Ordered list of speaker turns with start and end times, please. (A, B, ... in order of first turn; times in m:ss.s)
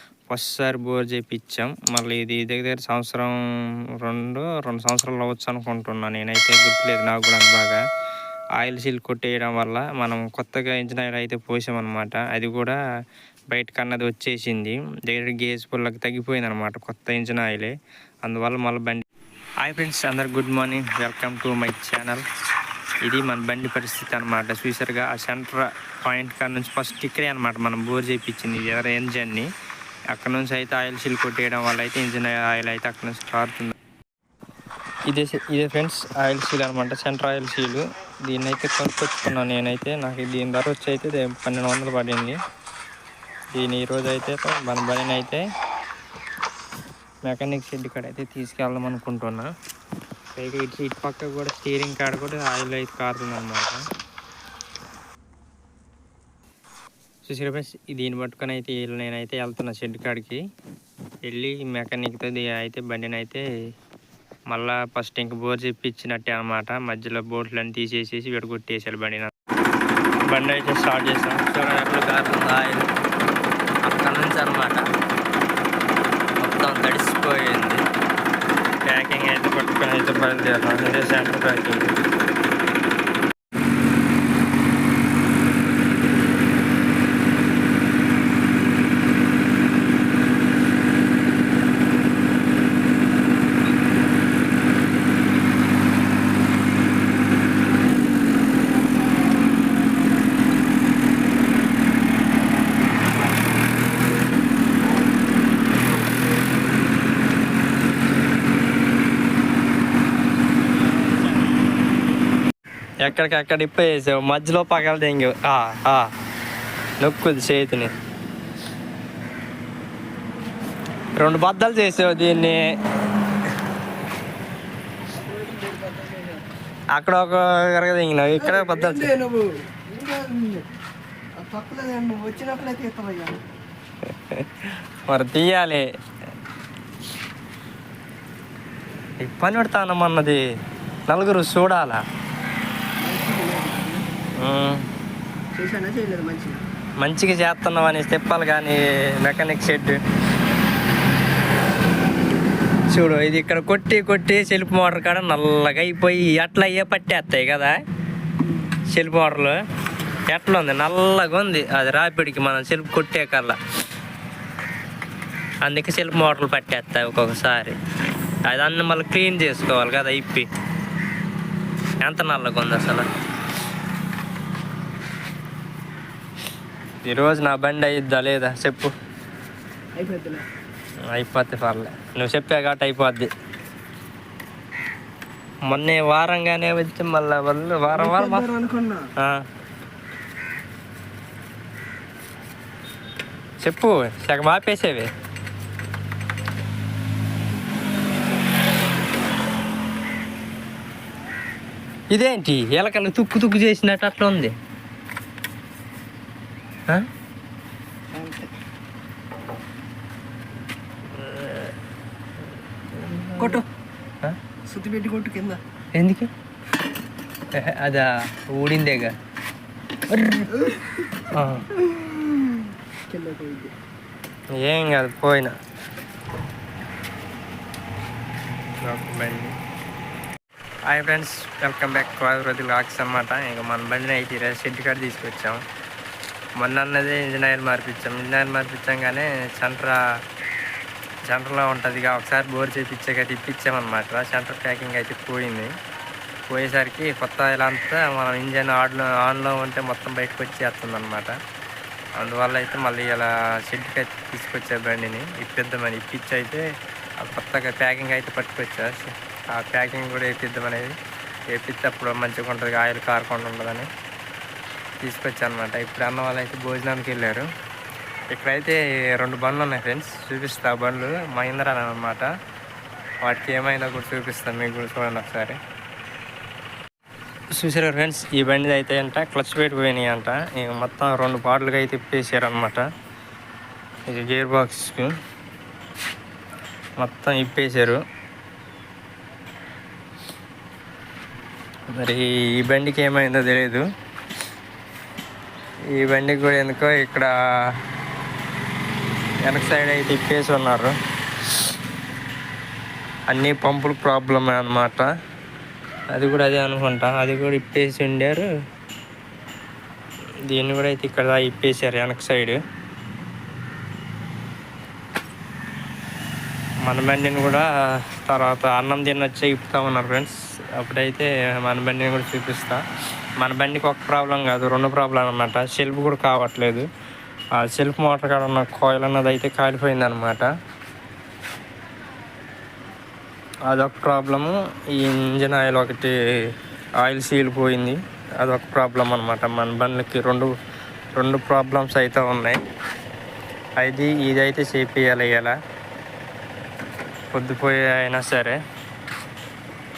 0:00.3-0:03.3 A
0:04.0-0:07.8 A
0:08.6-0:12.8 A
0:13.5-0:17.7 A
0:18.2-0:19.0 A
0:19.6-0:22.2 A
0:23.0-0:29.5 A
0:30.1-0:33.7 A
0:35.0-0:42.4 A
0:43.5-0:45.4 A
0:47.2-0:49.5 A
0:50.4-0:53.8 A
0:57.2-1:00.4 A
1:01.2-1:03.4 A
1:04.5-1:09.3 A
1:10.3-1:12.8 A
1:13.8-1:14.8 A
1:16.4-1:17.8 A
1:18.8-1:22.0 A
1:53.0-1:56.1 A
1:57.0-1:57.9 A
2:01.2-2:02.6 A
2:05.6-2:06.2 B
2:06.9-2:09.1 A
2:08.4-2:10.7 B
2:11.4-2:13.4 B
2:14.0-2:15.9 A
2:19.2-2:20.4 A
2:21.1-2:22.0 A
2:23.0-2:24.0 B
2:24.4-2:24.8 A
2:25.5-2:26.6 B
2:27.0-2:30.0 A
2:32.9-2:37.8 A
2:38.9-2:39.6 A
2:40.3-2:43.6 A
2:45.6-2:47.8 A
2:48.4-2:50.5 A
2:52.0-2:53.1 A
2:57.0-2:58.9 A
2:59.9-3:00.4 B
3:01.1-3:03.3 A
3:05.7-3:08.4 A
3:07.9-3:09.1 B
3:09.2-3:09.4 A
3:13.6-3:15.1 A
3:22.1-3:24.5 A
3:28.1-3:28.5 B
3:31.1-3:31.7 A
3:32.9-3:33.6 A
3:33.4-3:33.6 B
3:34.7-3:35.6 B
3:36.0-3:36.3 A
3:37.5-3:39.1 A
3:40.4-3:41.1 B
3:41.3-3:41.7 A
3:41.7-3:43.7 B
3:44.6-3:45.5 A
3:48.8-3:49.6 A
3:50.9-3:55.6 A
3:56.6-4:00.0 A
4:01.3-4:05.7 A
4:06.5-4:11.3 A
4:12.2-4:16.6 A
4:17.2-4:21.0 A
4:21.5-4:23.9 A
4:25.0-4:27.5 A
4:28.3-4:32.3 A
4:33.2-4:35.6 A
4:37.6-4:42.8 A
4:44.1-4:45.1 A
4:47.0-4:48.0 A
4:51.9-4:53.8 A
4:55.9-4:57.3 A
4:59.4-5:00.9 A
5:03.3-5:05.1 A
5:06.1-5:08.5 A
5:10.5-5:12.6 A
5:16.9-5:22.8 A
5:23.4-5:26.8 A
5:27.6-5:30.5 A
5:33.7-5:36.1 A
5:37.0-5:40.5 A
5:41.1-5:42.6 A
5:43.8-5:45.6 A
5:47.3-5:48.6 A